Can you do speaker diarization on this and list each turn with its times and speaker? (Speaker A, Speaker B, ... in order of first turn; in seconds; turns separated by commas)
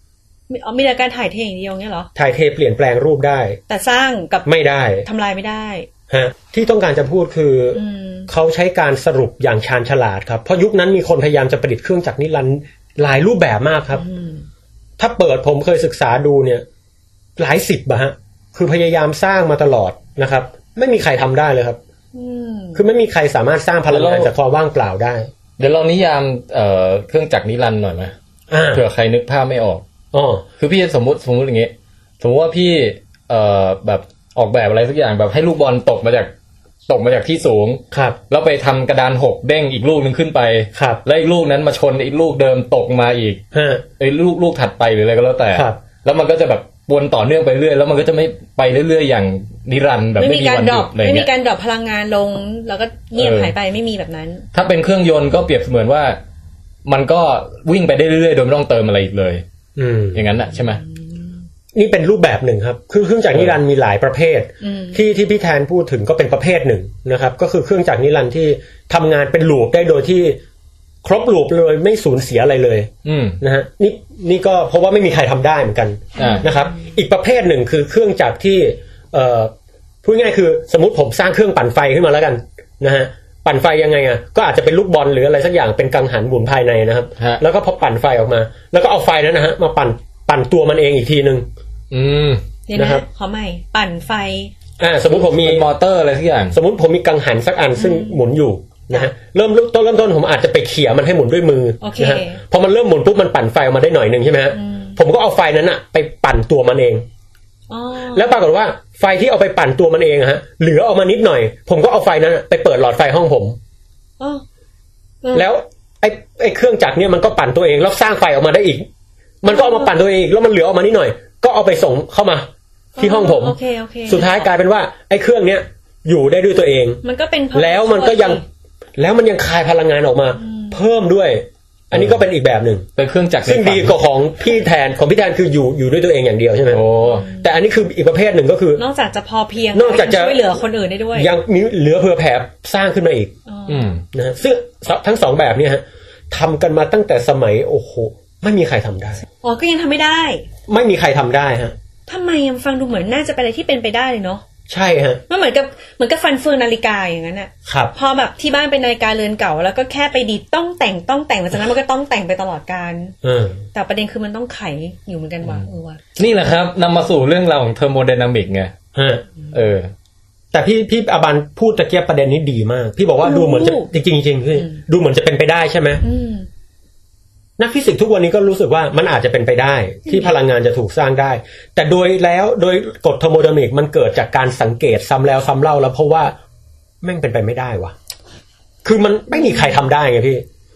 Speaker A: 0.5-2.1, Speaker B: 2.1-3.6, Speaker A: 3.7-4.5, Speaker B: 4.5-5.1, Speaker A: 5.0-5.9, Speaker B: 6.1-14.0, Speaker A: 7.7-8.3, Speaker A: 13.9-14.5, Speaker B: 15.0-16.6, Speaker B: 17.4-21.8, Speaker A: 22.1-22.8, Speaker B: 22.8-25.3, Speaker C: 23.9-24.3, Speaker C: 25.6-28.1, Speaker B: 28.5-28.8, Speaker C: 28.7-29.8, Speaker B: 30.1-30.4, Speaker C: 30.6-36.3, Speaker C: 36.9-43.4, Speaker B: 37.9-38.2, Speaker B: 40.8-41.0, Speaker B: 43.5-43.9, Speaker C: 44.0-51.3, Speaker A: 50.2-54.5, Speaker C: 53.2-53.5, Speaker C: 54.5-56.2, Speaker C: 56.9-59.4, Speaker B: 59.8-60.3, Speaker C: 60.1-60.8, Speaker B: 61.7-70.4, Speaker A: 64.6-65.0, Speaker B: 71.0-79.5, Speaker C: 73.0-73.4, Speaker C: 76.2-76.5, Speaker A: 76.2-76.6, Speaker B: 80.0-91.5, Speaker C: 91.9-92.4, Speaker A: 92.7-94.5, Speaker B: 92.8-93.0, Speaker B: 94.8-95.7, Speaker C: 95.2-96.6, Speaker B: 96.5-107.1, Speaker A: 97.8-98.2, Speaker A: 101.8-102.4, Speaker A: 104.5-105.0, Speaker A: 107.7-108.3, Speaker B: 108.1-113.6, Speaker B: 115.3-118.9, Speaker B: 119.4-127.0, Speaker A: 119.5-119.9, Speaker A: 123.0-124.5, Speaker A: 127.0-128.4, Speaker B: 127.5-128.4, Speaker B: 129.0-132.9, Speaker A: 130.4-130.8, Speaker C: 131.9-132.2, Speaker C: 133.0-134.0, Speaker B: 133.4-138.8, Speaker C: 136.7-137.3, Speaker A: 137.0-137.5, Speaker A: 138.8-141.3, Speaker B: 139.7-140.5, Speaker B: 141.1-143.3, Speaker A: 143.5-143.9, Speaker C: 143.7-144.0, Speaker B: 144.1-149.2, Speaker A: 149.4-150.5, Speaker B: 150.7-151.8, Speaker A: 152.1-154.4, Speaker B: 154.7-155.2, Speaker A: 155.3-163.2, Speaker B: 157.7-157.9, Speaker B: 163.2-163.6, Speaker A: 163.7-166.0, Speaker C: 166.2-168.7, Speaker B: 168.9-169.2, Speaker C: 169.5-169.9, Speaker B: 170.5-176.0, Speaker A: 173.2-173.9, Speaker A: 176.0-176.5, Speaker B: 177.6-186.4, Speaker A: 180.1-180.3, Speaker B: 187.0-187.9, Speaker B: 188.8-190.4, Speaker A: 189.3-189.9